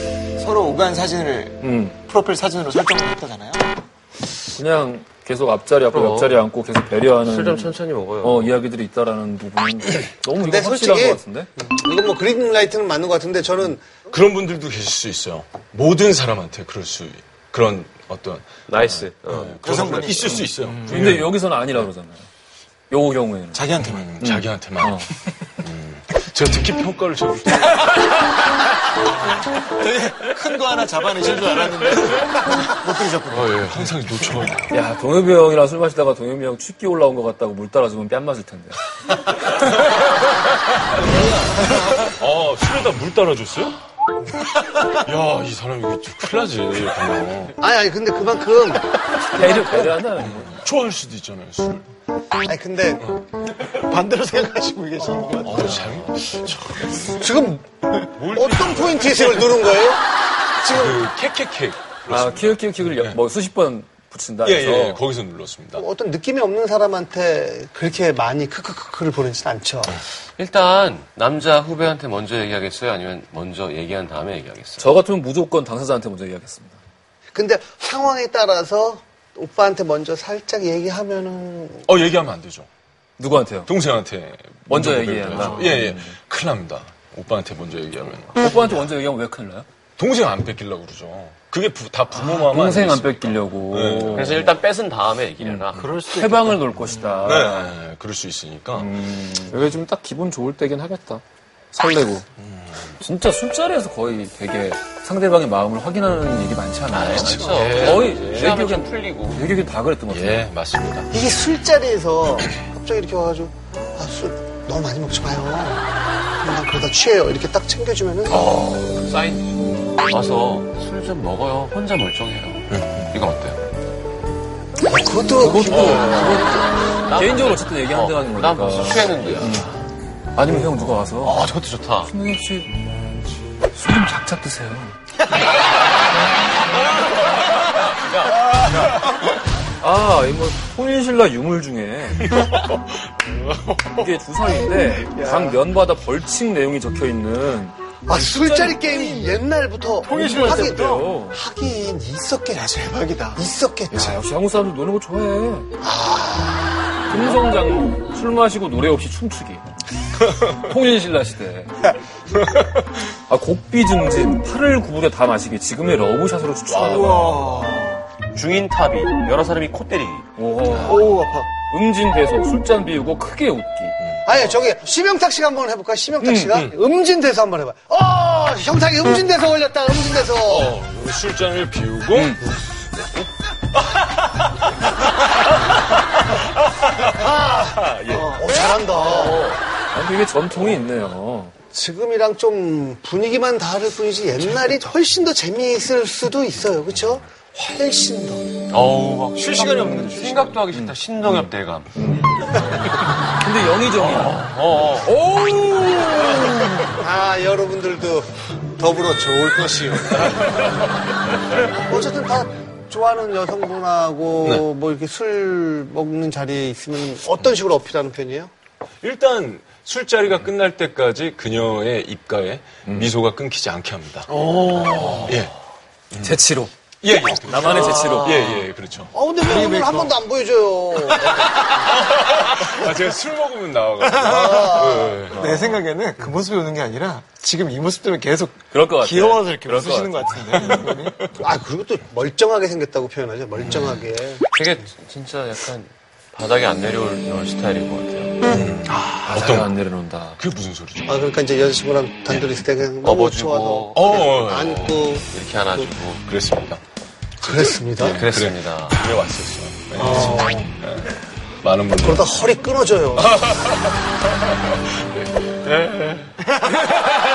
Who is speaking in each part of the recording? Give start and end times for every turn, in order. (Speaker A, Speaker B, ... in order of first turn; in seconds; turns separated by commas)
Speaker A: 0.4-3.7, Speaker B: 1.6-2.0, Speaker B: 4.5-11.5, Speaker C: 5.9-6.4, Speaker C: 7.2-8.5, Speaker D: 10.4-14.0, Speaker E: 14.0-21.4, Speaker C: 18.7-19.5, Speaker A: 19.6-20.6, Speaker B: 20.8-22.3, Speaker B: 22.9-23.7, Speaker A: 23.5-24.1, Speaker E: 23.8-25.1, Speaker B: 24.2-25.1, Speaker E: 25.6-28.0, Speaker A: 29.3-34.1, Speaker E: 33.3-34.7, Speaker B: 34.7-38.8, Speaker E: 42.0-43.8, Speaker E: 44.9-47.5, Speaker D: 47.6-48.9, Speaker B: 49.2-50.6, Speaker E: 50.2-51.9, Speaker D: 52.5-53.1, Speaker A: 53.5-56.0, Speaker D: 55.0-55.6, Speaker E: 55.4-57.1, Speaker D: 57.1-60.0, Speaker E: 58.2-59.4, Speaker D: 60.6-61.0, Speaker E: 60.7-63.2, Speaker B: 62.1-65.0, Speaker E: 64.4-65.8, Speaker D: 65.7-70.0, Speaker C: 70.4-74.9, Speaker B: 74.8-76.8, Speaker D: 77.3-81.9, Speaker E: 81.9-82.7, Speaker B: 83.2-83.7, Speaker E: 83.7-88.4, Speaker B: 84.7-86.1, Speaker B: 88.3-89.7, Speaker E: 90.0-94.4, Speaker B: 92.1-94.5, Speaker C: 94.1-95.9, Speaker B: 95.4-97.7, Speaker A: 95.8-96.6, Speaker E: 97.2-98.9, Speaker B: 98.8-102.2, Speaker E: 102.4-102.9, Speaker B: 103.0-110.5, Speaker C: 106.9-109.5, Speaker D: 107.1-107.9, Speaker E: 107.6-108.0, Speaker E: 110.1-111.1, Speaker D: 111.1-115.8, Speaker D: 116.4-118.5, Speaker C: 118.3-123.6, Speaker E: 122.7-123.1, Speaker D: 124.8-126.1, Speaker B: 125.4-129.7, Speaker C: 125.7-129.7, Speaker B: 130.3-131.5, Speaker C: 130.4-132.1, Speaker B: 132.0-133.0, Speaker B: 133.7-134.9, Speaker C: 137.4-139.0, Speaker B: 139.8-142.5, Speaker E: 142.4-142.7, Speaker E: 143.2-143.9, Speaker B: 143.8-149.4, Speaker D: 148.0-154.2, Speaker A: 150.1-151.1, Speaker B: 150.1-151.4, Speaker A: 152.8-153.4, Speaker B: 153.9-155.7, Speaker D: 155.8-156.9, Speaker B: 157.1-161.9, Speaker B: 163.1-167.4, Speaker A: 166.7-168.0, Speaker C: 168.3-170.3, Speaker B: 170.3-171.1, Speaker A: 170.9-171.2, Speaker D: 170.9-171.5, Speaker B: 171.7-174.0, Speaker D: 174.2-180.8, Speaker B: 176.2-176.7, Speaker E: 180.4-182.4, Speaker B: 182.1-182.5, Speaker E: 186.2-188.4, Speaker D: 187.1-189.5, Speaker C: 189.0-189.6, Speaker B: 189.9-191.5, Speaker D: 191.7-198.5, Speaker C: 198.7-201.9, Speaker A: 199.4-200.5, Speaker B: 202.0-202.3, Speaker B: 203.4-206.8, Speaker C: 203.9-205.1, Speaker D: 206.9-210.5, Speaker D: 211.8-218.5, Speaker E: 219.0-224.3, Speaker D: 224.3-225.3, Speaker E: 225.1-225.5, Speaker E: 226.1-226.4, Speaker B: 226.2-226.7, Speaker E: 227.0-229.1, Speaker D: 227.4-228.0, Speaker B: 227.5-228.5, Speaker A: 228.1-228.6, Speaker D: 229.1-231.7, Speaker A: 229.4-230.2, Speaker A: 231.3-231.5, Speaker E: 231.9-235.8, Speaker A: 234.0-241.3, Speaker D: 234.2-235.3, Speaker B: 238.7-241.0, Speaker D: 241.3-244.4, Speaker C: 243.7-248.4, Speaker E: 248.4-249.7, Speaker B: 249.2-250.4, Speaker E: 250.4-251.2, Speaker D: 251.1-255.8, Speaker C: 253.0-256.3, Speaker E: 253.9-254.9, Speaker E: 256.0-256.8, Speaker D: 257.4-258.2, Speaker C: 257.5-259.1, Speaker E: 258.0-262.3, Speaker D: 259.9-260.7, Speaker D: 262.0-263.4, Speaker E: 263.2-266.5